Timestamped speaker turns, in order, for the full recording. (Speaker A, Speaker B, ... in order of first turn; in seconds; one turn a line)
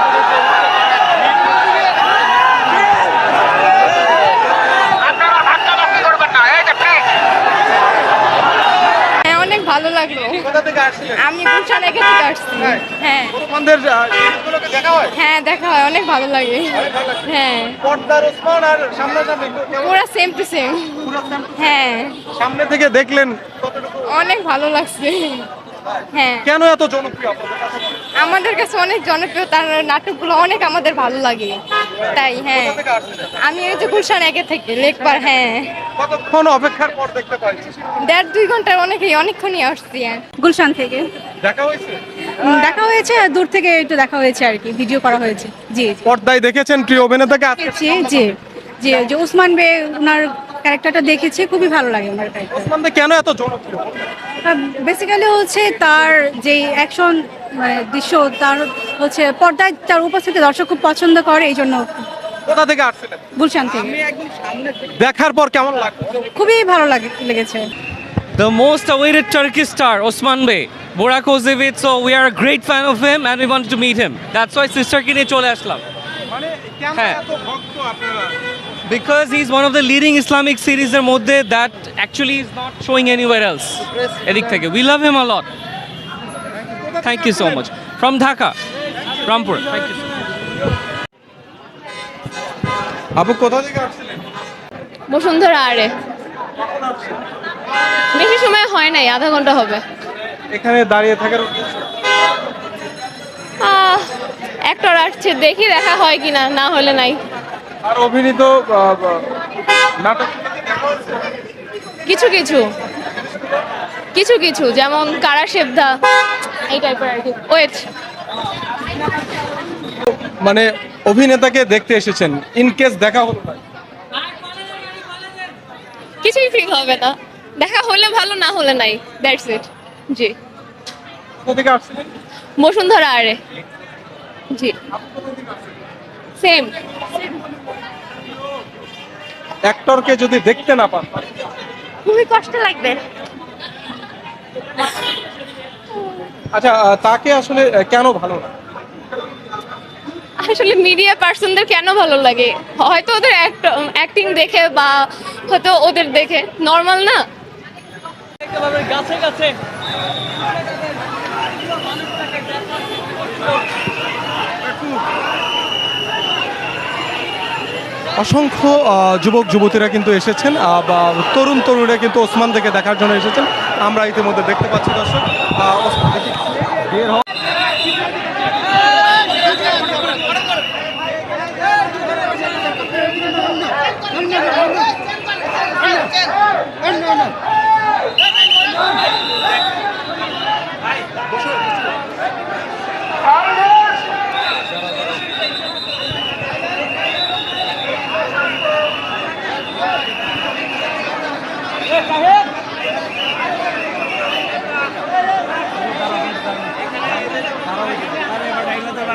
Speaker A: 9.3-10.4
Speaker B: 10.4-11.2
Speaker A: 11.2-13.3
Speaker B: 13.3-15.1
Speaker A: 15.2-17.8
Speaker B: 17.8-19.9
Speaker A: 19.7-22.2
Speaker B: 21.0-21.7
Speaker B: 22.3-24.1
Speaker A: 24.1-25.5
Speaker A: 26.1-26.5
Speaker B: 26.4-28.0
Speaker A: 28.2-32.8
Speaker B: 32.6-33.2
Speaker A: 33.4-35.7
Speaker B: 36.0-37.7
Speaker A: 38.0-40.2
Speaker C: 40.4-41.1
Speaker B: 41.4-42.0
Speaker C: 42.4-46.0
Speaker B: 46.0-48.2
Speaker C: 47.6-52.7
Speaker B: 52.5-54.0
Speaker C: 54.4-62.0
Speaker B: 62.5-63.3
Speaker C: 63.4-64.0
Speaker B: 64.1-66.3
Speaker C: 66.3-67.7
Speaker D: 68.4-75.8
Speaker B: 76.3-78.4
Speaker D: 77.0-77.2
Speaker D: 78.9-85.5
Speaker D: 87.0-88.6
Speaker D: 89.2-90.1
Speaker B: 93.2-94.2
Speaker E: 95.1-95.9
Speaker B: 96.6-97.2
Speaker E: 98.2-99.8
Speaker B: 100.5-101.8
Speaker E: 103.6-104.1
Speaker E: 104.7-107.2
Speaker B: 107.8-109.3
Speaker B: 110.0-111.0
Speaker E: 112.1-112.6
Speaker E: 114.2-115.9
Speaker E: 116.7-117.9
Speaker B: 120.2-123.6
Speaker E: 126.2-130.3
Speaker B: 131.4-132.1
Speaker E: 132.6-133.4
Speaker E: 136.4-136.7
Speaker B: 139.7-141.2
Speaker E: 142.1-143.0
Speaker B: 146.5-148.5
Speaker E: 150.4-157.2
Speaker B: 168.2-176.4